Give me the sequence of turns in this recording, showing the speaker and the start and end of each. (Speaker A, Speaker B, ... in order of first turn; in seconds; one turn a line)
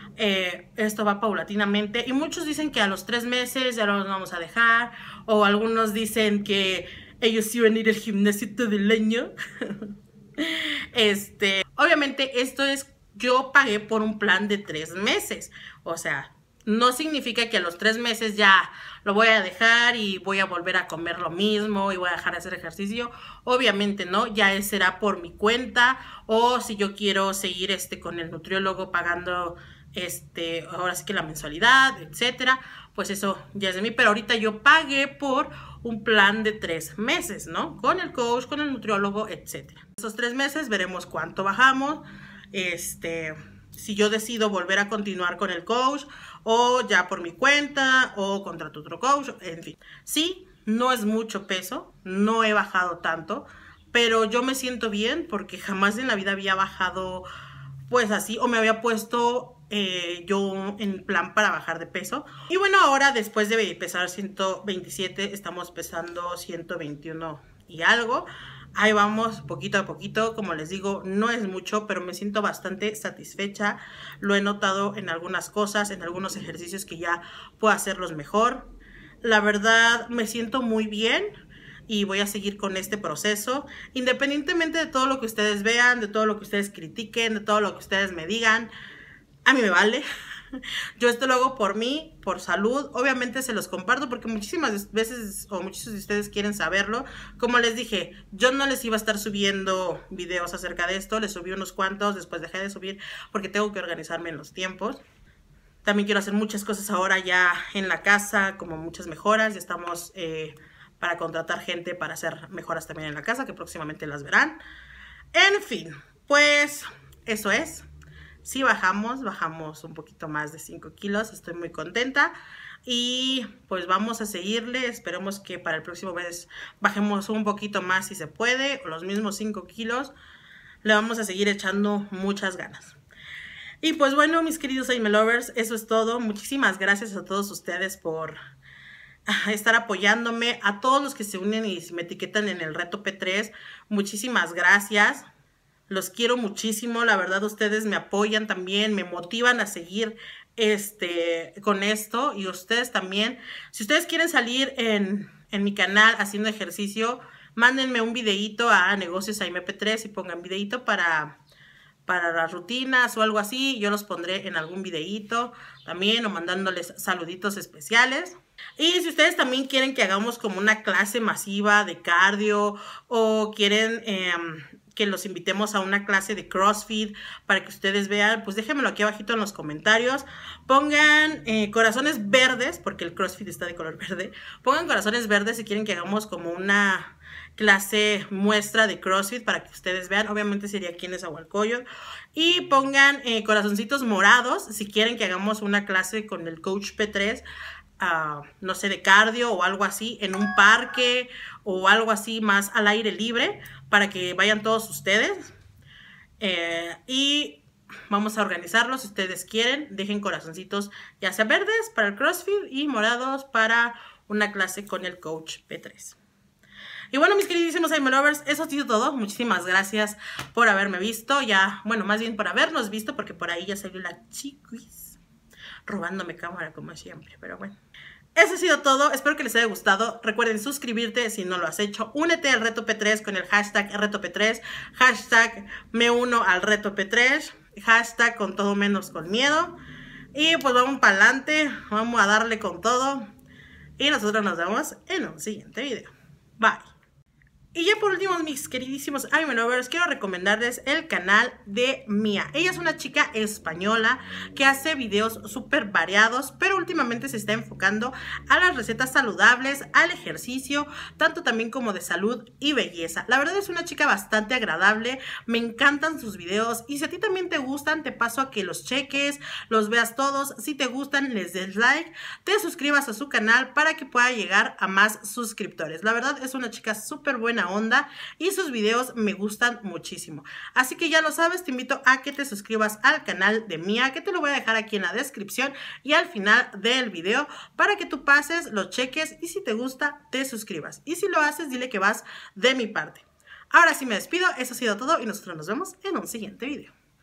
Speaker A: 0.2-57.3
Speaker A: 57.9-78.7
Speaker A: 79.2-81.3
Speaker A: 81.9-88.7
Speaker A: 89.5-105.0
Speaker A: 105.8-114.6
Speaker A: 115.3-117.9
Speaker A: 118.4-130.1
Speaker A: 130.8-133.0
Speaker A: 133.8-138.4
Speaker A: 139.3-145.2
Speaker A: 145.9-161.4
Speaker A: 162.1-197.4
Speaker A: 198.0-205.5
Speaker A: 206.4-216.2
Speaker A: 217.1-225.2
Speaker A: 225.9-227.8
Speaker A: 228.4-239.8
Speaker A: 240.3-243.3
Speaker A: 244.0-246.9
Speaker A: 247.7-296.9